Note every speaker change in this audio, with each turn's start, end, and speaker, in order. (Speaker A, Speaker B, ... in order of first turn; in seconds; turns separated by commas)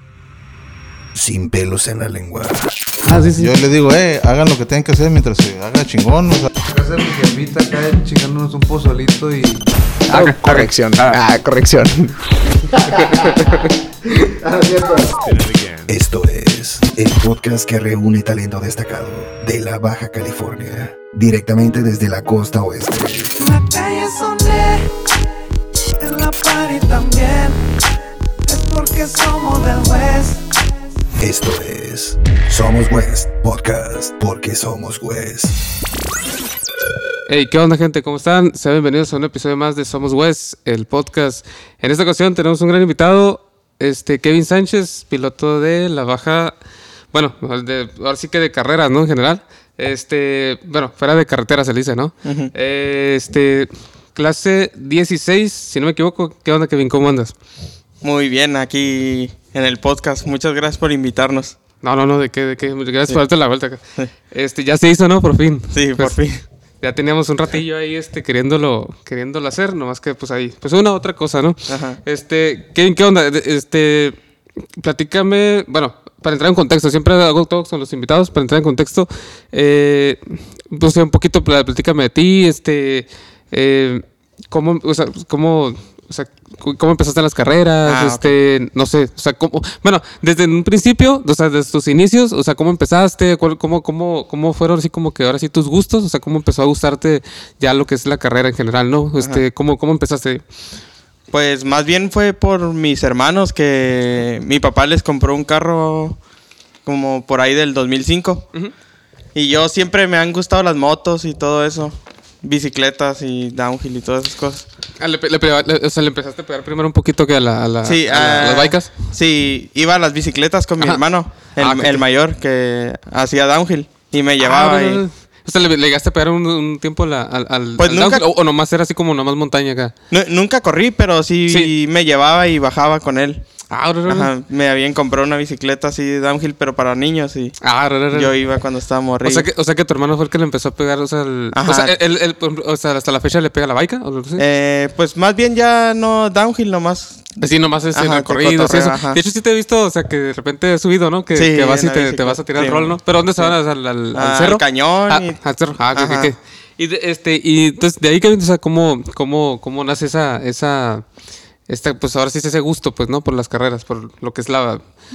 Speaker A: 1.1-2.7, Speaker B: 3.0-3.5, Speaker C: 3.4-6.5, Speaker D: 6.7-15.7, Speaker A: 10.2-10.7, Speaker A: 15.9-23.3, Speaker D: 23.4-25.1, Speaker D: 26.0-27.9, Speaker D: 28.4-30.6, Speaker A: 31.2-35.6, Speaker B: 37.3-46.6, Speaker B: 47.1-57.3, Speaker E: 52.2-52.5, Speaker E: 58.0-61.5, Speaker B: 61.8-66.2, Speaker E: 65.7-66.4, Speaker B: 66.8-74.2, Speaker E: 71.7-72.0, Speaker B: 74.8-100.4, Speaker E: 87.8-88.3, Speaker E: 101.3-106.2, Speaker E: 106.9-108.5, Speaker E: 109.3-114.7, Speaker B: 115.0-118.9, Speaker E: 117.8-125.0, Speaker B: 121.6-122.0, Speaker B: 124.4-129.9, Speaker E: 127.8-128.2, Speaker E: 130.1-133.4, Speaker B: 133.7-134.3, Speaker E: 134.1-137.6, Speaker B: 137.6-138.3, Speaker E: 138.1-139.5, Speaker B: 139.2-144.4, Speaker E: 141.6-141.9, Speaker E: 144.4-149.2, Speaker B: 147.4-161.1, Speaker E: 151.3-153.6, Speaker E: 154.2-155.4, Speaker E: 155.9-156.3, Speaker B: 161.7-164.8